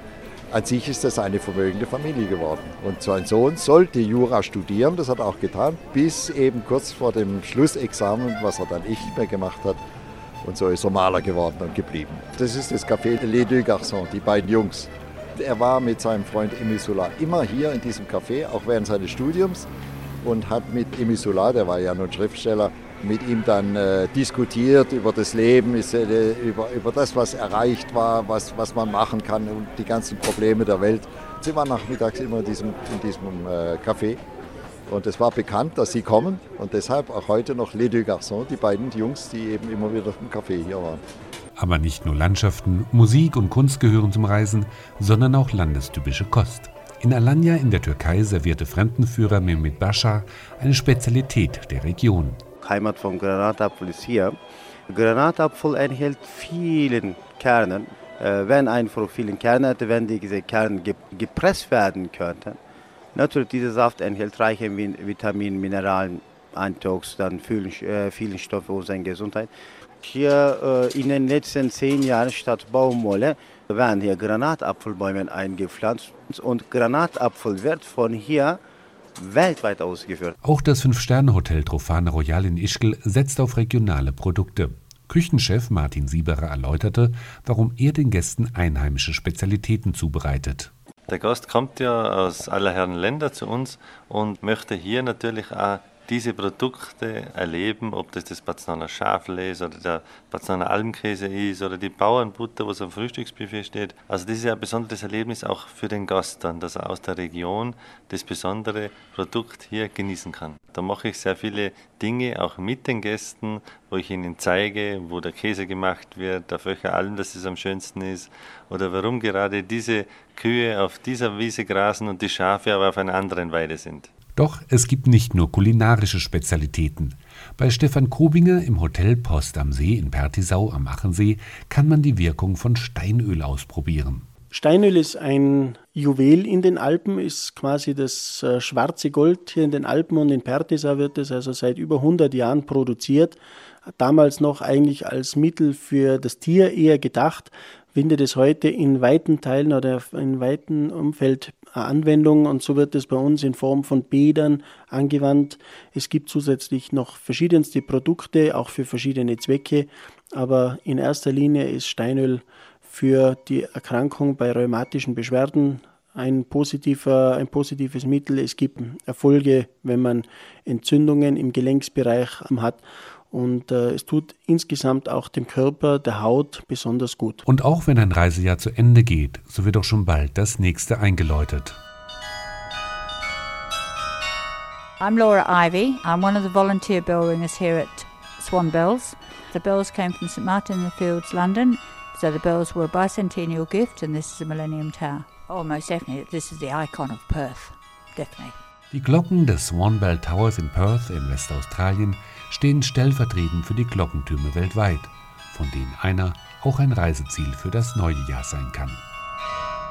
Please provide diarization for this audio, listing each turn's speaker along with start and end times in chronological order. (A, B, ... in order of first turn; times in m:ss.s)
0:00.5-0:09.8 A
0:10.4-0:19.7 A
0:20.2-0:34.2 A
0:34.9-0:41.0 A
0:41.6-0:52.4 B
0:52.6-0:54.3 C
0:54.9-1:02.6 C
1:03.2-1:09.5 C
1:10.0-1:18.6 C
1:19.2-1:20.4 C
1:20.4-1:30.7 B
1:31.1-2:04.1 D
2:04.4-2:14.3 B
2:14.5-2:23.4 E
2:23.9-2:57.4 E
2:57.5-3:01.8 B
3:05.0-3:18.6 F
3:18.9-3:29.0 B